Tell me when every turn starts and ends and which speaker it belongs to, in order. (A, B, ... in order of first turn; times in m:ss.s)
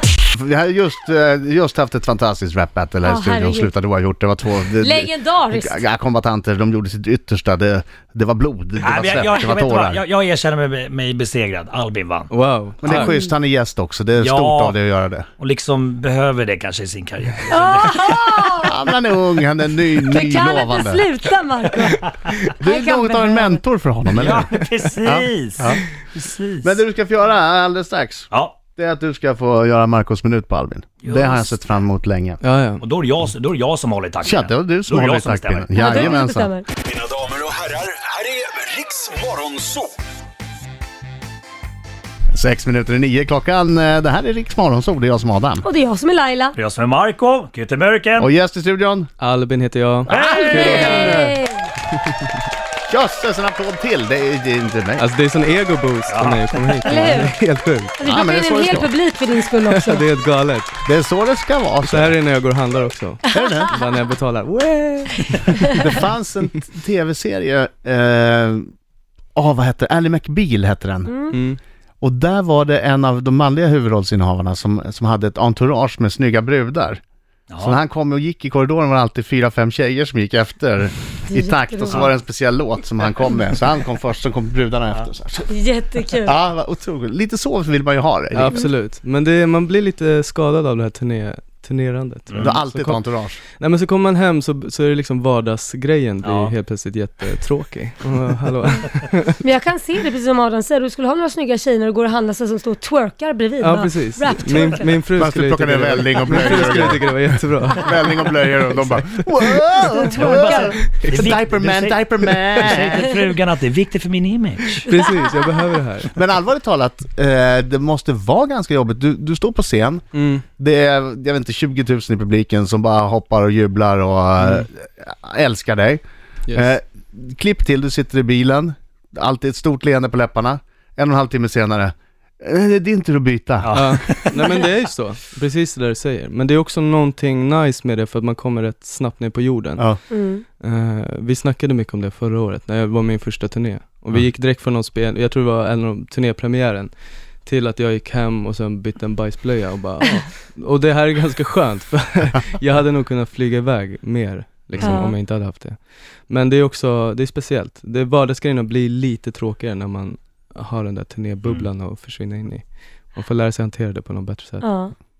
0:00.2-0:10.0 A
0:03.0-0:03.7 B
0:04.8-0:05.8 B
0:08.8-0:12.3 C
0:12.3-0:13.1 D
0:12.8-0:15.3 A
0:12.9-0:13.3 B
0:14.2-0:14.8 C
0:15.4-0:18.3 C
0:17.5-0:18.8 B
0:18.5-0:21.1 A
0:20.0-0:23.6 B
0:22.6-0:24.5 A
0:24.1-0:26.7 C
0:25.0-0:25.8 A
0:26.6-0:32.4 A
0:28.3-0:28.6 C
0:31.0-0:31.4 C
0:32.4-0:32.8 D
0:32.8-0:36.2 C
0:34.2-0:36.5 A
0:35.8-0:36.6 B
0:37.1-0:39.4 E
0:42.3-0:45.6 A
0:45.6-0:46.6 B
0:46.5-0:48.3 C
0:48.2-0:49.1 A
0:49.2-0:50.1 D
0:50.1-0:51.4 A
0:50.1-0:51.0 C
0:50.3-0:51.7 B
0:52.9-0:55.0 A
0:55.0-0:58.0 D
0:56.1-0:56.4 C
0:56.7-0:57.4 B
0:58.0-1:00.1 B
0:58.0-0:58.9 A
0:59.6-1:00.7 D
1:00.8-1:02.2 A
1:01.8-1:05.2 D
1:03.3-1:03.8 A
1:05.2-1:05.9 B
1:05.6-1:08.7 A
1:09.3-1:11.3 A
1:11.3-1:11.6 D
1:12.0-1:17.0 A
1:17.5-1:17.8 C
1:17.6-1:25.5 A
1:21.3-1:22.1 B
1:25.5-1:26.3 B
1:26.2-1:28.6 A
1:28.3-1:33.0 D
1:32.4-1:33.4 A
1:33.6-1:39.4 D
1:36.2-1:36.5 C
1:39.4-1:45.0 B
1:43.6-1:49.9 D
1:45.2-1:53.1 A
1:46.3-1:46.7 B
1:50.0-1:54.9 C
1:50.1-1:50.8 B
1:50.8-1:51.3 D
1:54.8-1:56.1 D
1:55.0-1:55.4 B
1:56.1-2:00.0 A
2:00.1-2:00.4 D
2:00.6-2:06.0 A
2:06.5-2:06.7 D
2:06.5-2:14.5 A
2:13.6-2:14.3 C
2:13.7-2:19.9 D
2:20.1-2:20.4 B
2:20.5-2:26.9 D
2:27.4-2:35.8 D
2:34.8-2:35.2 B
2:36.3-2:44.6 D
2:44.6-2:44.9 B